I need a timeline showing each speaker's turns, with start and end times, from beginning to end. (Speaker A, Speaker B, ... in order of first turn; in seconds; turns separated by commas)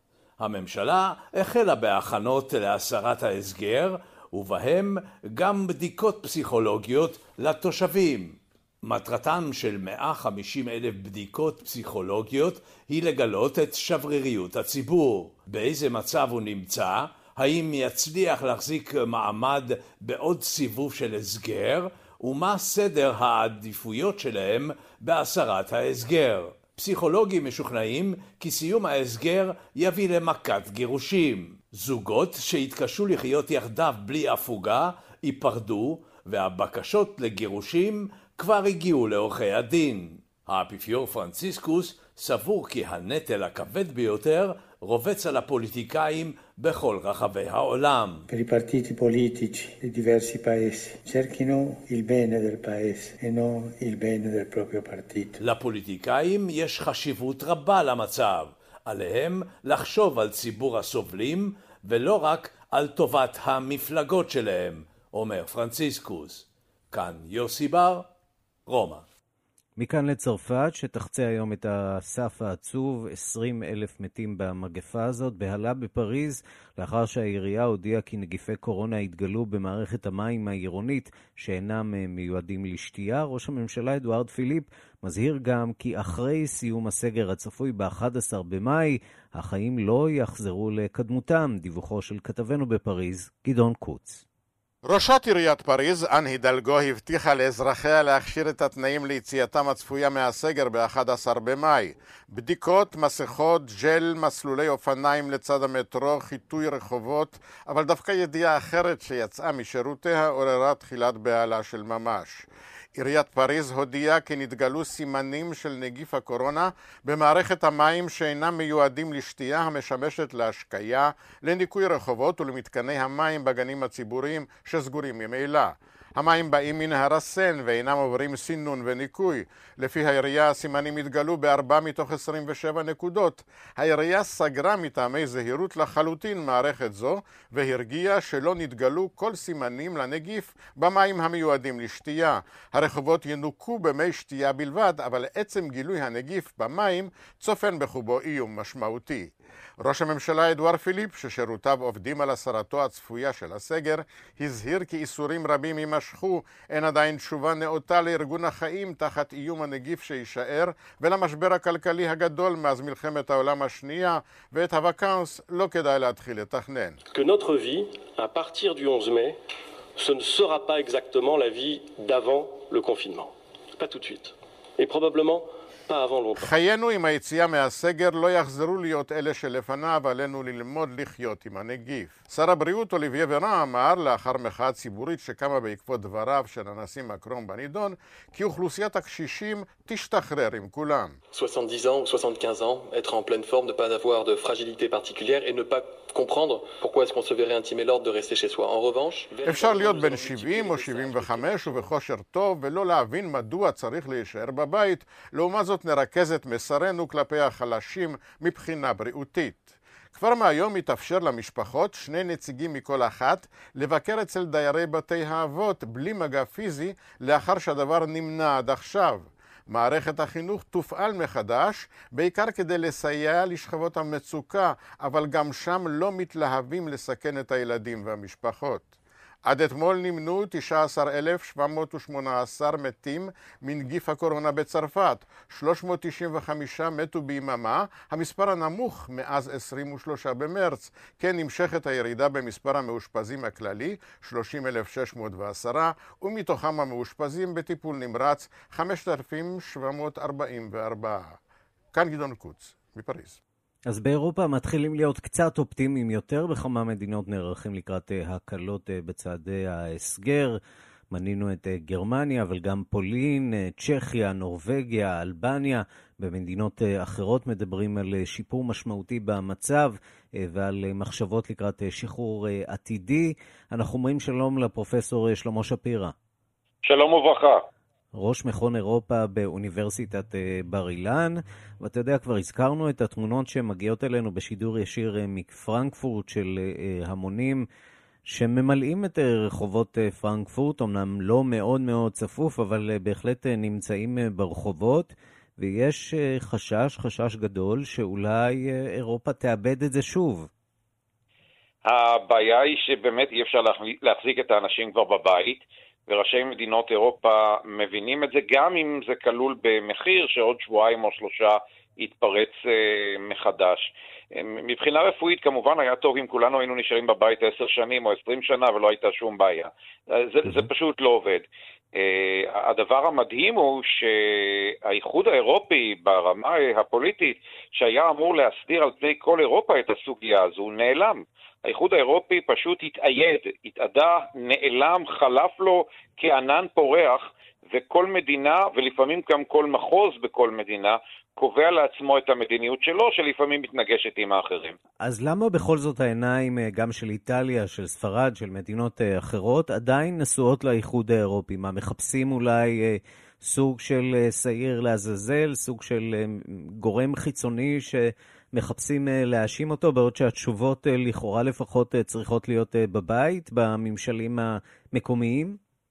Speaker A: 0.4-48.3, Speaker B: 48.3-55.4, Speaker A: 55.4-68.1, Speaker A: 68.7-69.0, Speaker C: 69.8-94.2, Speaker D: 94.8-112.4, Speaker D: 113.0-167.0, Speaker E: 167.1-169.4, Speaker E: 170.0-176.5, Speaker D: 176.4-191.2, Speaker E: 191.3-201.9, Speaker D: 199.4-228.9, Speaker D: 229.5-251.3, Speaker D: 251.9-253.4, Speaker C: 253.9-260.6, Speaker C: 261.1-276.1, Speaker F: 276.8-277.6, Speaker C: 278.1-287.7, Speaker C: 288.3-300.5, Speaker F: 301.9-344.8, Speaker C: 345.0-365.6